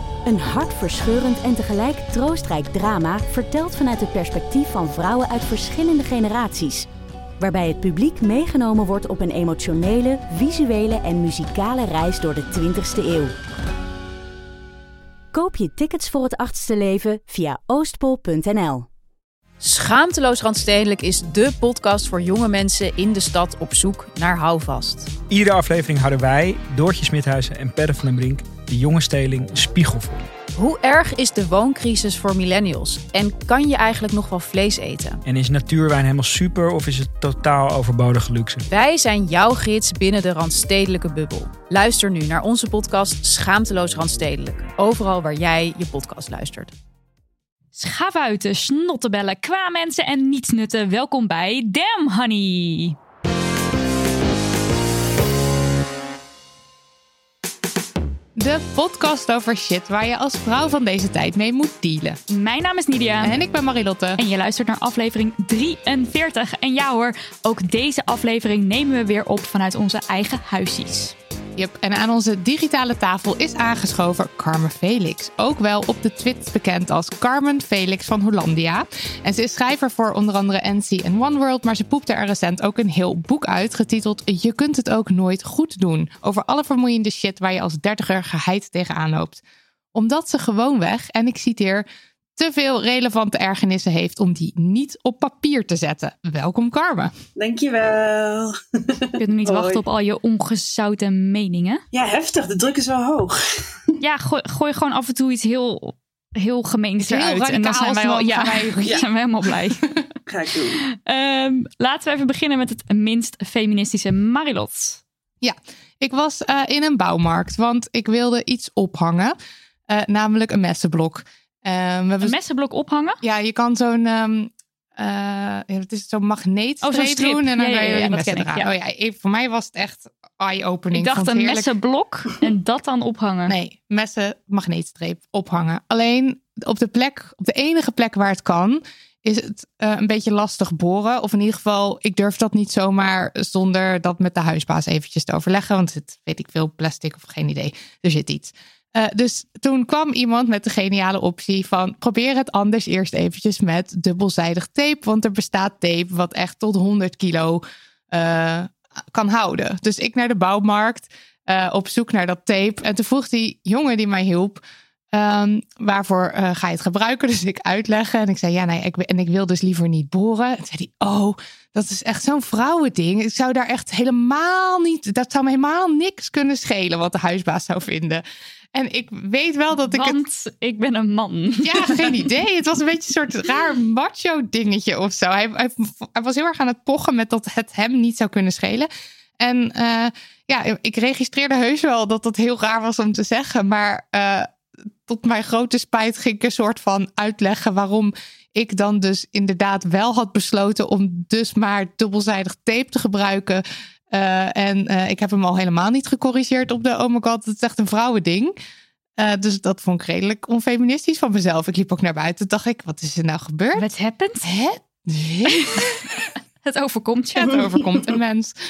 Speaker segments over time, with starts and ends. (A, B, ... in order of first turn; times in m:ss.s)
0:00.2-0:06.9 A
0:07.4-0:13.4 A
0:15.3-0:18.9 A
0:19.6-0:25.1 B
0:25.3-0:30.3 C
0:30.6-0:35.2 B
0:35.2-0:38.7 C
0:38.7-0:46.7 B
0:47.8-0:53.0 D
0:58.4-1:02.2 E
1:02.3-1:03.4 D
1:03.2-1:04.2 E
1:04.2-1:11.2 D
1:11.6-1:29.4 E
1:29.9-1:31.8 E
1:32.4-1:37.1 E
1:37.4-1:39.8 F
1:39.2-1:41.8 D
1:41.9-1:43.7 F
1:44.0-1:49.8 D
1:47.0-1:49.0 E
1:50.3-1:50.8 F
1:50.9-1:55.0 D
1:55.4-1:59.4 E
1:59.9-2:02.4 E
2:02.2-2:03.2 D
2:03.2-2:11.7 E
2:06.8-2:08.7 D
2:10.9-2:13.6 D
2:13.5-2:44.6 E
2:45.1-2:58.2 E
2:58.7-3:00.2 E
2:59.9-3:02.3 D
3:01.6-3:14.5 E
3:15.0-3:28.6 E
3:29.2-3:33.9 E
3:33.8-3:34.5 D
3:34.4-3:36.0 E
3:35.5-3:37.6 D
3:37.4-3:38.6 E